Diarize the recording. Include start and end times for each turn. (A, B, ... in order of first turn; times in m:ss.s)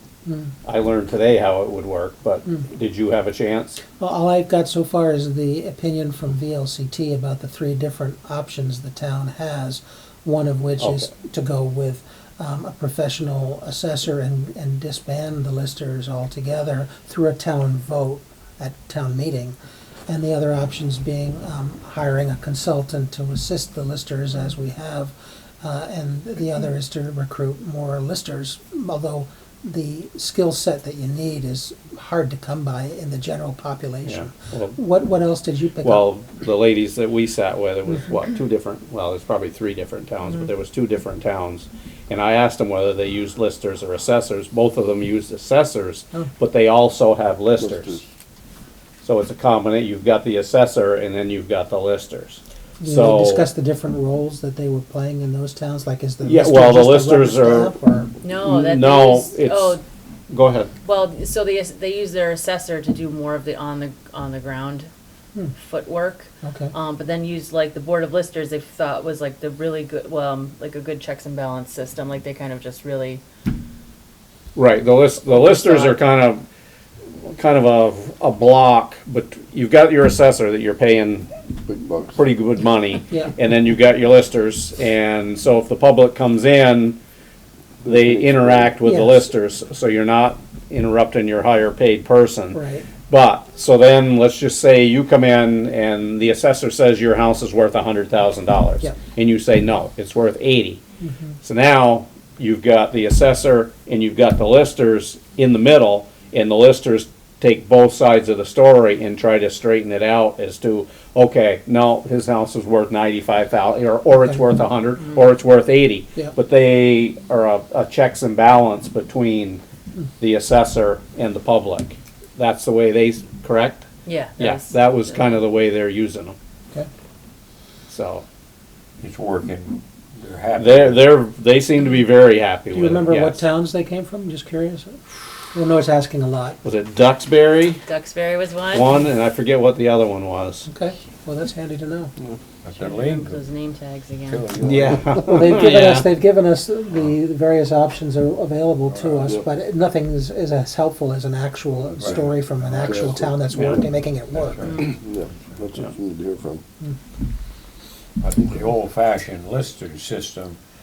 0:00.6-0:03.8 A
0:04.0-0:19.6 B
0:10.8-0:11.1 A
0:20.1-0:36.1 B
0:34.0-0:34.8 A
0:35.8-0:48.0 A
0:47.6-0:48.0 C
0:49.0-0:53.5 A
0:52.8-0:58.1 B
0:56.2-0:57.7 A
0:58.2-0:59.8 D
0:58.3-0:59.8 A
1:00.3-1:00.7 A
1:00.8-1:04.9 D
1:05.5-1:13.2 D
1:06.4-1:06.7 B
1:14.5-1:16.4 A
1:15.2-1:16.0 D
1:17.2-1:21.3 A
1:21.6-1:22.3 C
1:22.2-1:27.0 A
1:23.1-1:23.3 B
1:27.8-1:28.8 C
1:27.9-1:40.8 A
1:28.8-1:29.3 B
1:32.5-1:32.9 B
1:41.0-1:41.3 B
1:41.4-1:59.6 A
2:00.2-2:06.4 A
2:04.0-2:05.2 D
2:07.9-2:08.2 A
2:09.0-2:11.1 E
2:10.6-2:13.4 A
2:12.7-2:16.6 B
2:16.6-2:17.8 A
2:17.9-2:18.9 D
2:18.7-2:20.6 A
2:20.6-2:22.1 B
2:22.6-2:23.4 E
2:22.8-2:24.5 D
2:24.2-2:25.1 E
2:24.6-2:26.1 A
2:25.1-2:34.7 B
2:28.9-2:29.3 E
2:31.9-2:33.1 E
2:32.8-2:33.4 C
2:34.4-2:35.4 E
2:34.8-2:36.6 C
2:38.2-2:40.6 E